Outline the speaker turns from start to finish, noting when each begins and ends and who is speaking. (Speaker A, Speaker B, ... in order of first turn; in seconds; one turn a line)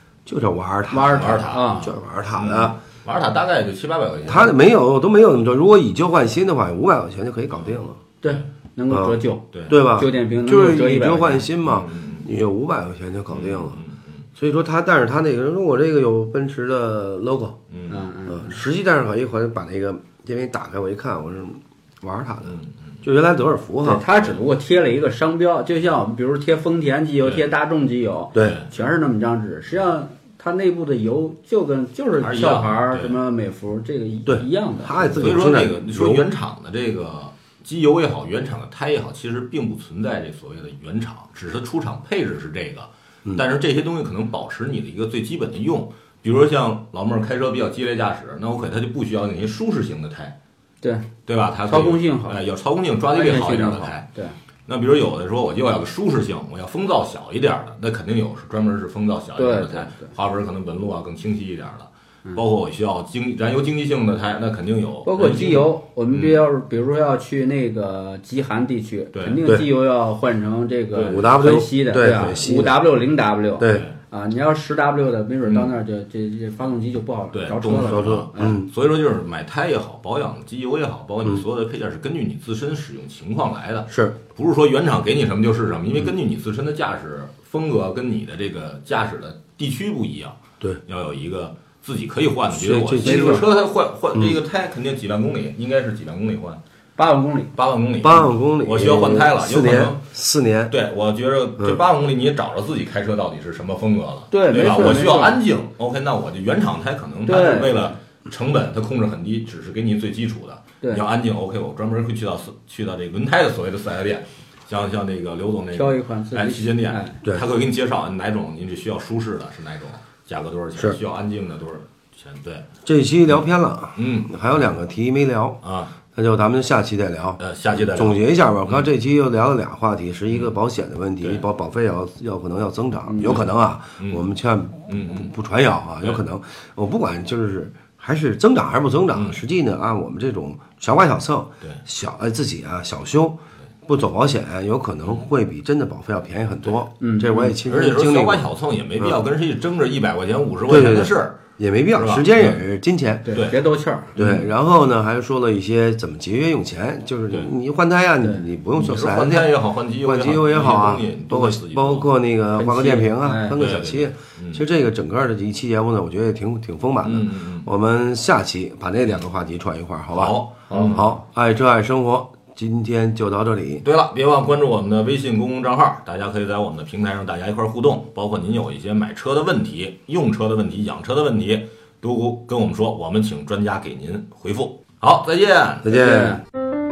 Speaker A: 0.3-2.8
Speaker B: 0.9-1.9
Speaker C: 1.0-4.5
Speaker A: 4.3-8.0
Speaker C: 7.5-8.4
Speaker B: 8.2-11.5
Speaker A: 8.9-13.8
Speaker C: 9.5-9.8
Speaker C: 11.6-12.3
Speaker C: 13.3-14.2
Speaker A: 14.4-17.6
Speaker C: 17.7-18.1
Speaker B: 17.9-18.6
Speaker A: 18.3-24.0
Speaker C: 22.5-22.8
Speaker B: 23.8-35.5
Speaker C: 28.4-28.6
Speaker C: 32.2-33.2
Speaker A: 34.3-36.2
Speaker C: 35.2-50.4
Speaker B: 50.8-51.1
Speaker C: 51.3-54.1
Speaker B: 51.7-52.4
Speaker B: 53.1-54.4
Speaker C: 54.7-66.4
Speaker B: 59.4-60.1
Speaker B: 65.0-78.6
Speaker C: 69.1-69.4
Speaker C: 70.9-72.4
Speaker A: 71.0-72.8
Speaker A: 73.6-73.9
Speaker C: 73.7-73.9
Speaker C: 75.5-75.7
Speaker C: 77.3-96.6
Speaker A: 77.8-78.7
Speaker A: 83.9-84.2
Speaker A: 92.5-93.5
Speaker B: 93.0-93.4
Speaker B: 97.0-97.5
Speaker C: 97.5-100.0
Speaker A: 98.0-100.7
Speaker C: 100.7-122.7
Speaker B: 104.3-105.4
Speaker B: 107.3-108.0
Speaker B: 115.7-117.2
Speaker A: 122.8-125.6
Speaker C: 124.0-124.4
Speaker C: 125.6-126.0
Speaker A: 126.1-148.5
Speaker C: 127.4-128.9
Speaker C: 130.3-130.6
Speaker B: 133.1-133.4
Speaker C: 134.0-134.3
Speaker C: 134.9-135.3
Speaker C: 139.1-139.4
Speaker B: 147.0-147.6
Speaker C: 147.7-151.4
Speaker A: 150.7-153.4
Speaker C: 151.9-152.6
Speaker B: 153.3-154.1
Speaker C: 154.2-154.5
Speaker A: 154.2-173.8
Speaker C: 158.7-162.1
Speaker B: 162.6-163.6
Speaker C: 163.6-164.6
Speaker C: 167.0-167.7
Speaker C: 170.1-171.1
Speaker B: 170.7-171.0
Speaker C: 173.8-186.0
Speaker A: 185.8-186.4
Speaker B: 185.9-186.4